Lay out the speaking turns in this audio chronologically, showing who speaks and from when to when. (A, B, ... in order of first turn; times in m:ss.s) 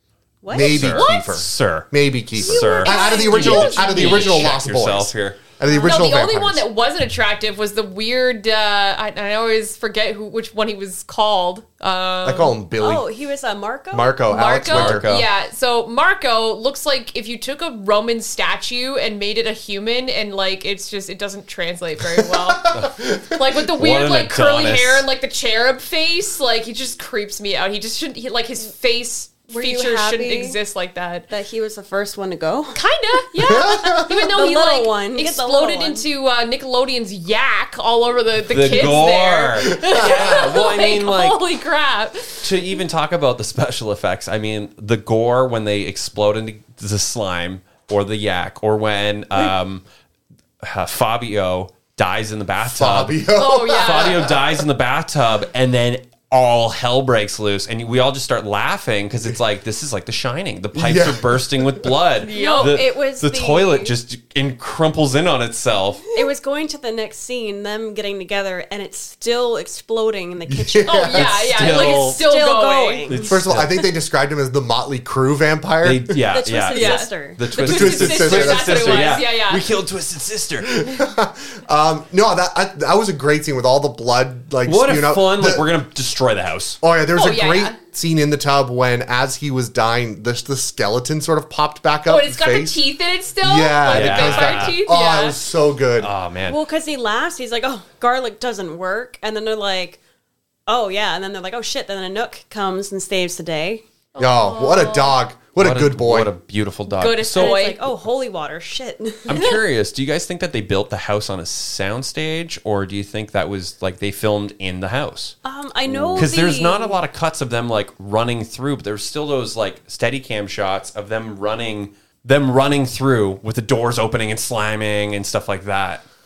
0:00.4-0:01.0 A
0:00.5-0:06.6 B
0:00.6-0:05.4 C
0:00.9-0:01.3 D
0:02.4-0:04.6 D
0:05.7-0:06.0 A
0:05.7-0:12.5 D
0:12.2-0:13.0 B
0:12.8-0:14.2 A
0:13.9-0:15.1 B
0:14.3-0:22.8 D
0:14.6-0:15.3 C
0:22.2-0:23.6 B
0:23.3-0:31.3 D
0:23.8-0:25.0 C
0:29.5-0:30.6 A
0:31.3-0:36.0 A
0:32.7-0:42.5 D
0:33.4-0:34.3 B
0:38.5-0:41.4 C
0:39.8-0:40.4 B
0:42.4-0:49.8 C
0:50.6-1:06.0 C
0:52.6-0:54.4 B
0:53.3-0:54.3 D
1:00.7-1:01.9 B
1:02.2-1:02.8 D
1:02.3-1:03.9 A
1:06.1-1:13.4 A
1:10.5-1:11.7 B
1:10.8-1:13.1 D
1:11.5-1:12.2 C
1:13.1-1:13.8 C
1:13.3-1:16.2 B
1:15.8-1:20.7 C
1:16.3-1:17.4 A
1:16.7-1:19.6 D
1:17.6-1:19.2 B
1:20.6-1:25.7 B
1:24.6-1:26.8 C
1:26.8-1:32.8 B
1:27.1-1:27.8 D
1:32.1-1:35.4 D
1:33.4-1:36.1 B
1:33.9-1:34.7 C
1:36.0-1:36.6 C
1:36.5-1:40.0 A
1:40.7-1:43.8 A
1:44.1-1:45.2 D
1:44.2-1:46.3 B
1:45.6-1:47.6 C
1:46.9-1:47.8 D
1:47.4-1:49.6 A
1:49.3-1:55.4 C
1:55.4-1:57.0 A
1:55.9-1:56.3 B
1:56.1-2:06.0 C